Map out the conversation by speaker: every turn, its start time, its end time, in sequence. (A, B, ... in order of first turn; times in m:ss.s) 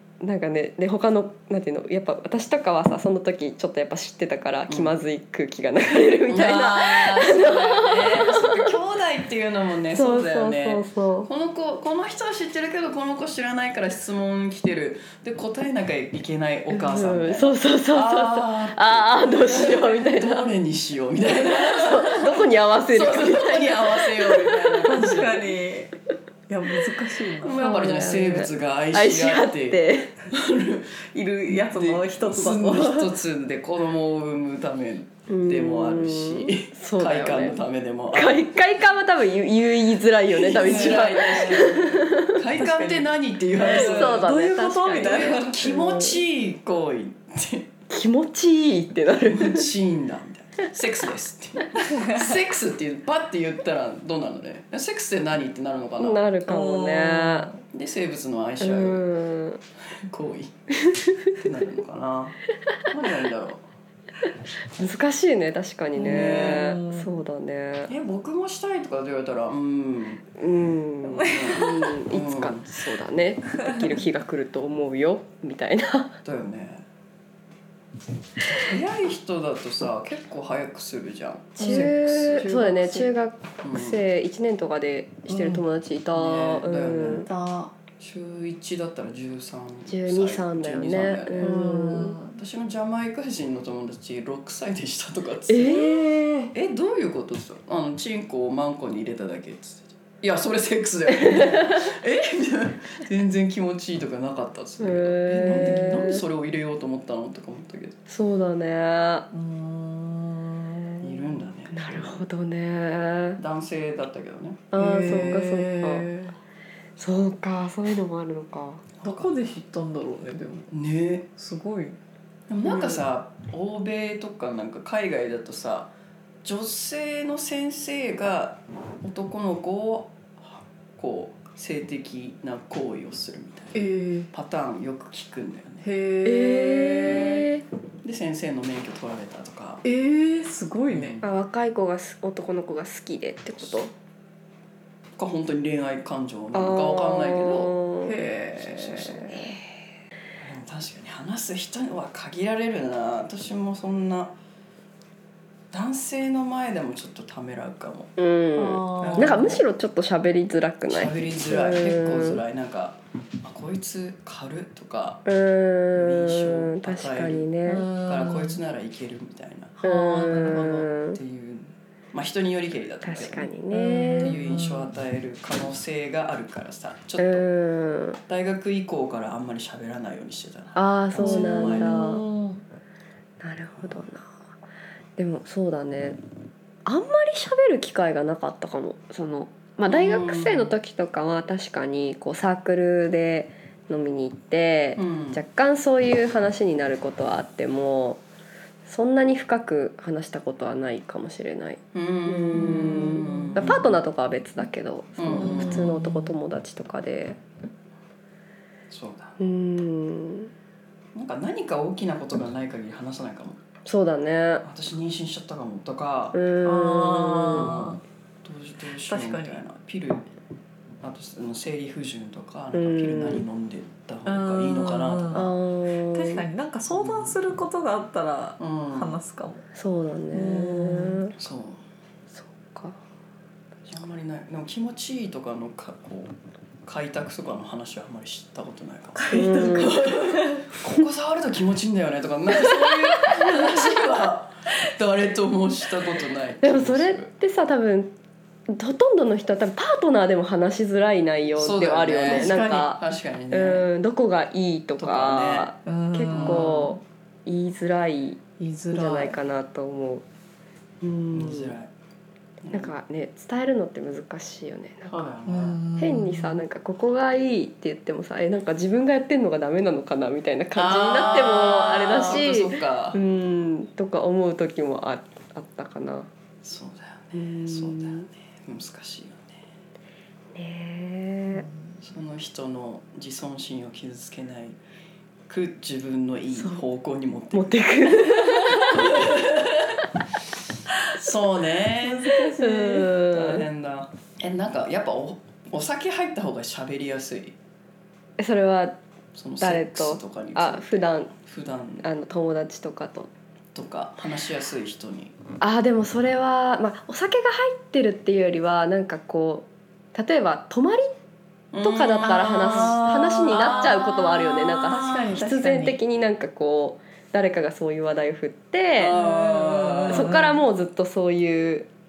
0:00.2-0:08.7 A
0:04.7-0:04.9 B
0:06.3-0:25.5 B
0:09.9-0:11.3 A
0:16.7-0:20.5 A
0:21.3-0:24.8 A
0:24.9-0:26.0 C
0:26.5-0:27.6 C
0:27.4-0:38.5 B
0:27.5-0:30.1 A
0:31.1-0:33.2 C
0:35.3-0:37.6 A
0:38.1-0:42.4 A
0:40.3-0:44.3 B
0:40.6-0:41.8 C
0:42.6-0:45.6 C
0:43.7-0:46.2 A
0:45.0-0:47.7 B
0:47.9-0:49.7 A
0:49.1-0:56.2 B
0:51.9-0:52.3 C
0:56.0-0:57.5 A
0:56.5-0:57.6 C
0:57.7-0:59.0 B
0:58.6-0:59.6 A
1:00.0-1:00.5 B
1:00.9-1:01.4 A
1:01.3-1:03.6 B
1:04.8-1:07.9 A
1:06.0-1:07.1 C
1:06.0-1:06.7 B
1:07.9-1:10.2 B
1:10.4-1:16.2 A
1:11.2-1:12.8 B
1:16.2-1:16.8 B
1:18.5-1:22.5 B
1:21.6-1:23.1 C
1:21.6-1:27.3 A
1:23.6-1:24.0 B
1:25.3-1:25.6 C
1:26.1-1:27.3 B
1:27.3-1:27.7 C
1:28.0-1:48.0 B
1:29.9-1:32.2 A
1:31.4-1:32.4 C
1:35.5-1:36.5 A
1:41.1-1:41.8 A
1:44.8-1:46.2 A
1:45.4-1:46.0 C
1:48.1-1:49.3 A
1:49.3-1:51.4 C
1:51.0-1:52.2 B
1:51.7-1:53.4 A
1:53.4-1:55.4 B
1:54.7-1:56.1 A
1:54.8-1:56.4 C
1:57.0-1:58.8 A
1:59.0-1:59.3 B
1:59.0-2:00.7 C
2:00.7-2:01.3 B
2:01.4-2:02.0 C
2:02.5-2:05.9 B
2:06.4-2:15.9 B
2:13.8-2:14.3 C
2:15.8-2:17.4 C
2:16.2-2:17.6 A
2:17.1-2:17.4 B
2:18.0-2:19.8 B
2:19.8-2:21.2 C
2:20.9-2:21.2 B
2:21.2-2:23.9 A
2:25.2-2:29.5 B
2:26.5-2:28.1 A
2:28.0-2:29.4 C
2:30.4-2:34.3 B
2:35.7-2:38.1 B
2:38.2-2:42.4 A
2:38.6-2:39.6 C
2:39.0-2:39.6 B
2:40.9-2:45.2 B
2:45.3-2:47.9 A
2:45.9-2:49.8 B
2:47.7-2:48.6 C
2:49.8-2:50.9 C
2:49.8-2:51.2 A
2:51.0-2:53.5 B
2:53.0-2:54.3 A
2:53.7-2:54.9 C
2:54.2-2:57.5 B
2:57.2-2:58.2 A
2:58.3-3:02.1 B
3:00.8-3:02.2 A
3:01.2-3:02.6 C
3:03.4-3:04.3 A
3:05.2-3:06.2 A
3:06.9-3:18.2 A
3:09.9-3:10.7 B
3:15.0-3:15.4 B
3:18.9-3:27.4 A
3:21.9-3:24.0 B
3:22.9-3:23.5 C
3:25.2-3:26.0 B
3:25.4-3:26.3 C
3:28.9-3:29.4 B
3:29.4-3:30.5 A
3:31.1-3:33.6 B
3:33.9-3:34.6 A
3:34.6-3:36.4 B
3:36.3-3:37.8 A
3:36.6-3:38.0 C
3:37.5-3:40.3 B
3:39.1-3:39.6 C
3:41.0-3:45.5 B
3:42.7-3:43.4 A
3:44.3-3:45.6 C
3:45.3-3:46.4 A
3:46.1-3:49.6 C
3:46.9-3:47.4 B
3:48.6-3:49.2 B
3:49.8-3:51.4 A
3:50.3-3:51.3 C
3:51.4-3:51.8 B
3:52.4-3:53.0 A
3:53.9-3:56.3 B
3:56.8-4:07.3 B
3:59.2-4:00.7 C
3:59.3-4:00.0 A
4:06.6-4:08.1 A
4:08.7-4:20.2 A
4:11.6-4:13.9 B
4:15.0-4:15.7 B
4:15.8-4:17.0 C
4:16.3-4:16.9 B
4:18.6-4:19.4 C
4:21.0-4:21.7 A
4:21.3-4:21.9 B
4:22.6-4:22.9 B
4:22.7-4:25.3 A
4:25.1-4:25.8 B
4:25.5-4:26.6 C
4:26.0-4:36.3 A
4:30.8-4:33.2 B
4:36.6-4:39.6 B
4:37.3-4:38.3 A
4:40.6-4:41.7 A
4:41.5-4:42.0 C
4:42.0-4:44.8 B
4:45.5-4:50.1 B
4:46.6-4:46.8 A
4:47.5-4:49.4 A
4:51.1-4:52.4 B
4:52.0-4:53.2 C
4:52.4-4:53.7 A
4:53.2-4:57.6 B
4:58.4-4:59.0 A
4:59.4-5:02.1 B
4:59.6-5:01.3 A
5:02.0-5:03.3 A
5:03.8-5:05.3 B
5:05.6-5:11.2 A
5:11.7-5:14.3 B
5:11.8-5:19.2 A
5:12.5-5:16.0 C
5:19.0-5:20.4 B
5:19.1-5:20.6 C
5:20.1-5:21.9 A